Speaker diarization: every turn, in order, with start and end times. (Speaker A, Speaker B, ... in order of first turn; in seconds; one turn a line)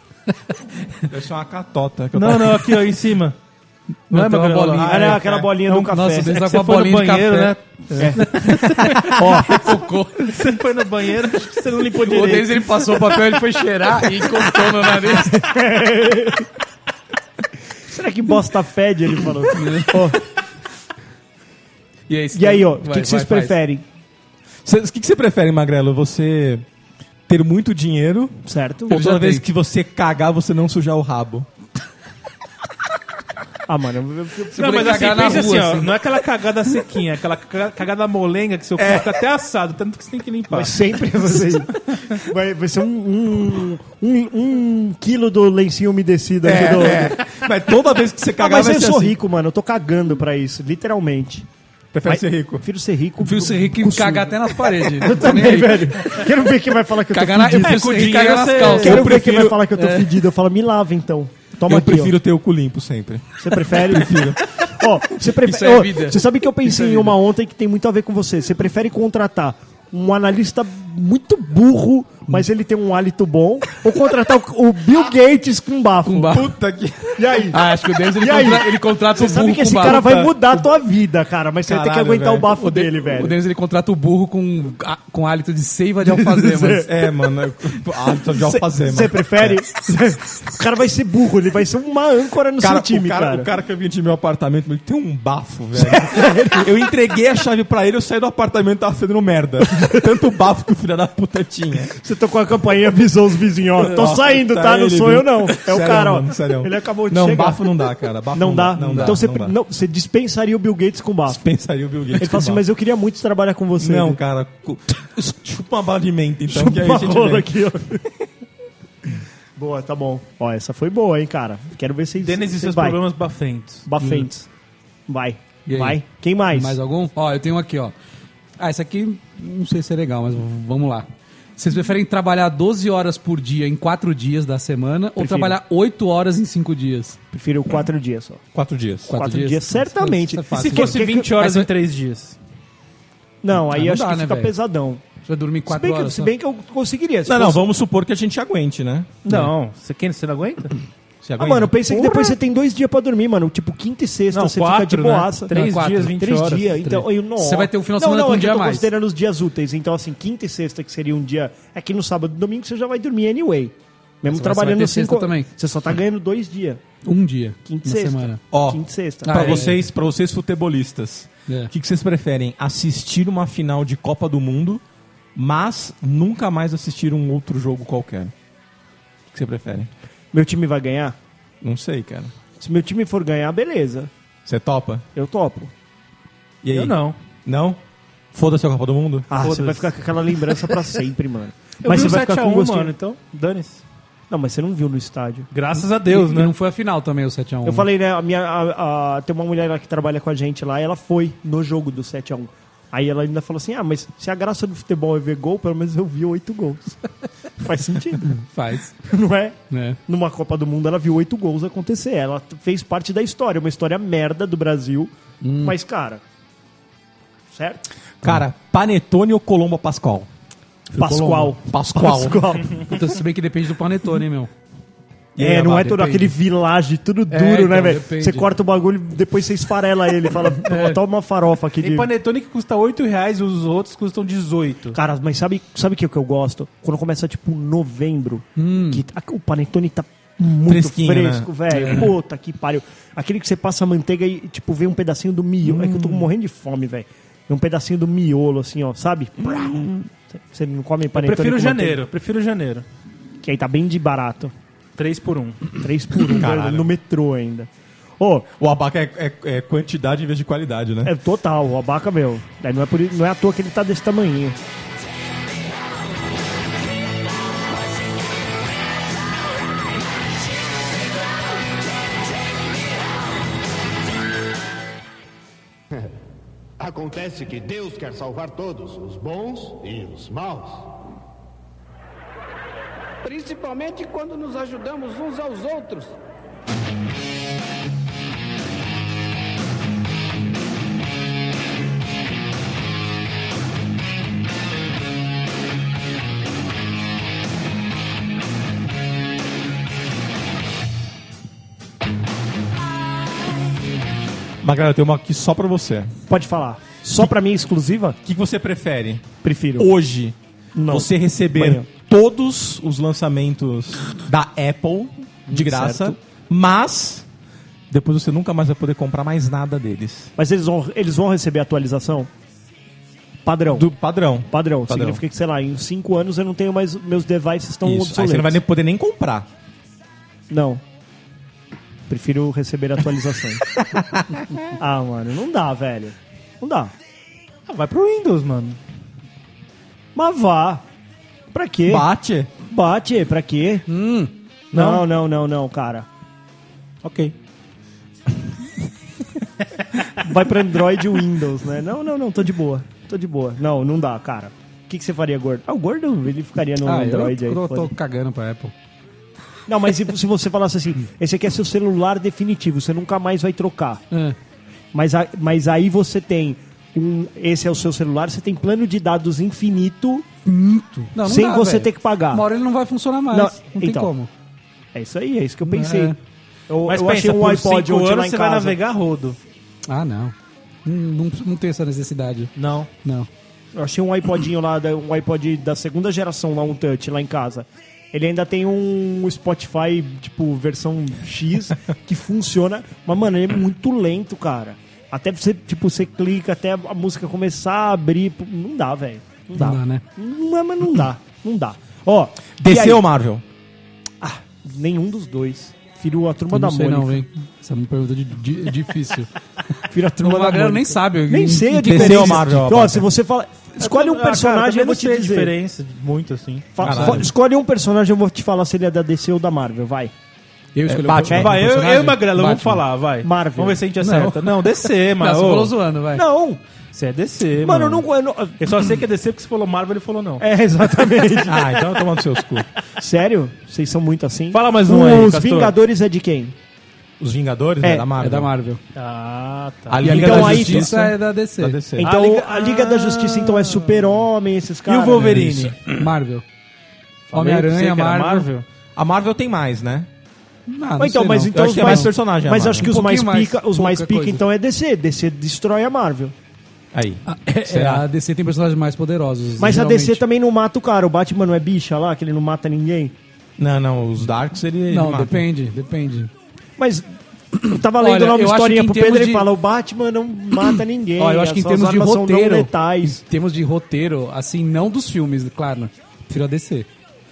Speaker A: 1.1-2.8
Speaker B: 2.1-3.4
Speaker B: 4.1-5.2
Speaker C: 4.1-10.3
Speaker A: 4.8-5.5
Speaker D: 4.8-6.3
Speaker B: 5.7-9.1
Speaker D: 8.0-8.2
Speaker D: 9.0-9.8
Speaker B: 10.2-13.0
Speaker C: 12.0-15.4
Speaker D: 15.1-16.5
Speaker D: 17.9-20.2
Speaker C: 19.5-20.0
Speaker C: 22.1-23.6
Speaker D: 22.3-23.8
Speaker A: 24.6-26.6
Speaker A: 27.3-31.5
Speaker D: 28.5-29.0
Speaker C: 28.9-29.5
Speaker D: 33.7-35.4
Speaker C: 34.5-35.9
Speaker B: 34.5-41.5
Speaker A: 38.8-39.1
Speaker D: 40.5-47.2
Speaker A: 46.4-49.2
Speaker D: 48.4-51.5
Speaker A: 51.9-52.6
Speaker D: 52.0-57.9
Speaker C: 53.2-56.2
Speaker C: 57.1-59.2
Speaker B: 57.6-59.1
Speaker A: 58.7-59.6
Speaker D: 58.8-62.1
Speaker C: 59.8-60.1
Speaker A: 61.7-64.4
Speaker D: 63.4-76.5
Speaker C: 65.4-67.1
Speaker C: 76.0-76.5
Speaker A: 76.3-77.5
Speaker D: 77.2-83.3
Speaker C: 77.5-80.0
Speaker A: 79.7-80.7
Speaker A: 81.6-82.5
Speaker C: 82.6-86.9
Speaker D: 86.0-87.0
Speaker A: 86.8-89.6
Speaker D: 88.3-93.5
Speaker A: 92.6-102.0
Speaker D: 95.8-96.7
Speaker D: 102.0-107.7
Speaker A: 103.8-109.5
Speaker D: 108.3-111.4
Speaker C: 108.8-109.2
Speaker A: 111.2-112.6
Speaker D: 112.2-114.2
Speaker A: 113.8-117.5
Speaker D: 116.5-118.0
Speaker D: 119.1-123.0
Speaker B: 122.2-123.9
Speaker D: 123.9-124.5
Speaker C: 124.0-124.3
Speaker D: 125.1-126.8
Speaker C: 125.7-126.0
Speaker C: 126.5-127.9
Speaker C: 128.6-137.2
Speaker D: 135.2-135.6
Speaker D: 137.3-138.4
Speaker A: 138.5-139.1
Speaker C: 139.1-141.7
Speaker D: 139.1-141.4
Speaker B: 140.5-142.4
Speaker D: 143.4-145.0
Speaker C: 143.7-144.5
Speaker C: 145.2-146.3
Speaker D: 145.7-147.6
Speaker A: 147.2-149.1
Speaker B: 149.2-150.7
Speaker A: 151.2-152.0
Speaker D: 151.4-166.8
Speaker B: 154.3-156.8
Speaker C: 155.5-156.2
Speaker C: 156.8-158.9
Speaker C: 164.3-165.5
Speaker C: 167.0-168.4
Speaker D: 167.7-169.7
Speaker A: 168.5-174.8
Speaker C: 169.2-169.8
Speaker A: 175.3-178.3
Speaker A: 179.3-179.9
Speaker D: 180.3-181.2
Speaker A: 181.6-182.3
Speaker D: 182.6-184.1
Speaker A: 184.5-185.1
Speaker D: 185.2-185.7
Speaker A: 186.6-187.8
Speaker B: 186.7-187.2
Speaker A: 188.3-189.3
Speaker D: 189.3-192.9
Speaker B: 189.4-189.9
Speaker B: 191.8-193.8
Speaker D: 194.3-195.5
Speaker B: 195.5-196.5
Speaker C: 196.1-197.9
Speaker D: 197.7-207.0
Speaker D: 207.6-208.4
Speaker C: 208.3-208.9
Speaker D: 209.1-216.2
Speaker C: 209.7-210.0
Speaker C: 215.4-215.8
Speaker D: 217.5-217.8
Speaker A: 218.2-220.3
Speaker C: 220.9-221.5
Speaker D: 221.0-222.9
Speaker A: 221.6-222.5
Speaker C: 222.8-224.5
Speaker A: 225.3-226.0
Speaker D: 225.4-232.1
Speaker C: 225.7-226.3
Speaker C: 227.3-228.5
Speaker C: 230.7-231.0
Speaker B: 231.8-235.0
Speaker D: 234.9-252.0
Speaker C: 238.6-239.0
Speaker A: 240.7-241.8
Speaker B: 251.1-252.8
Speaker D: 253.4-254.5
Speaker B: 255.0-255.7
Speaker D: 255.8-258.5
Speaker A: 256.3-256.9
Speaker A: 258.6-261.1
Speaker D: 261.0-264.6
Speaker E: 276.8-281.0
Speaker F: 283.2-286.2
Speaker A: 304.6-306.1
Speaker D: 306.3-308.2
Speaker A: 308.2-309.2
Speaker D: 309.4-309.9
Speaker A: 309.8-310.3
Speaker D: 310.8-311.9
Speaker A: 310.9-317.2
Speaker D: 315.5-316.2
Speaker A: 317.9-320.3
Speaker D: 320.4-322.3
Speaker D: 323.4-323.9
Speaker A: 323.7-325.2
Speaker D: 324.5-328.6
Speaker A: 327.8-329.5
Speaker D: 330.5-330.8
Speaker D: 332.1-333.8
Speaker A: 334.0-334.2
Speaker D: 334.8-336.9
Speaker B: 337.7-338.8
Speaker D: 340.1-340.8
Speaker D: 341.5-342.1
Speaker A: 341.9-342.5
Speaker D: 342.6-343.8
Speaker C: 343.9-344.3
Speaker D: 344.7-346.1
Speaker B: 344.7-345.0
Speaker B: 347.0-347.3
Speaker D: 350.2-357.9
Speaker C: 356.8-358.7
Speaker D: 359.7-364.0
Speaker C: 364.1-364.4
Speaker D: 364.9-370.2
Speaker C: 370.4-374.3
Speaker D: 371.2-372.5
Speaker D: 373.3-374.1
Speaker D: 374.9-376.1
Speaker C: 375.6-376.2
Speaker D: 376.7-378.8
Speaker B: 376.9-379.4
Speaker C: 379.9-382.5
Speaker B: 382.6-382.9
Speaker D: 383.8-403.0
Speaker C: 399.5-400.0
Speaker A: 402.6-403.4
Speaker D: 404.2-407.2
Speaker C: 406.5-409.3
Speaker D: 409.9-415.5
Speaker C: 410.2-412.5
Speaker A: 411.8-413.1
Speaker B: 413.8-416.8
Speaker D: 416.8-420.1
Speaker A: 416.8-417.3
Speaker C: 416.9-417.2
Speaker C: 420.8-422.8
Speaker A: 420.9-421.7
Speaker B: 421.3-425.7
Speaker D: 423.2-423.8
Speaker C: 424.0-424.4
Speaker C: 425.2-426.2
Speaker D: 426.1-426.6
Speaker B: 426.9-428.0
Speaker D: 427.6-428.7
Speaker B: 428.6-430.4
Speaker D: 430.4-431.9
Speaker A: 431.4-432.7
Speaker D: 433.0-436.5
Speaker B: 434.5-435.8
Speaker A: 437.2-438.5
Speaker C: 438.2-438.8
Speaker B: 438.9-440.1
Speaker A: 439.9-442.1
Speaker D: 440.0-441.1
Speaker C: 440.0-441.8
Speaker D: 442.0-445.4
Speaker B: 442.0-444.2
Speaker B: 444.9-445.8
Speaker A: 445.2-445.8
Speaker C: 445.9-446.4
Speaker B: 447.3-448.6
Speaker C: 447.3-448.5
Speaker A: 449.0-450.1
Speaker C: 450.7-452.1
Speaker D: 451.0-456.3
Speaker A: 451.5-452.9
Speaker C: 452.8-454.4
Speaker A: 456.9-458.0
Speaker C: 457.2-460.2
Speaker D: 459.6-463.1
Speaker A: 463.6-465.4
Speaker C: 464.9-466.3
Speaker D: 466.8-467.1
Speaker C: 467.6-469.5
Speaker D: 467.6-473.2
Speaker C: 471.2-476.9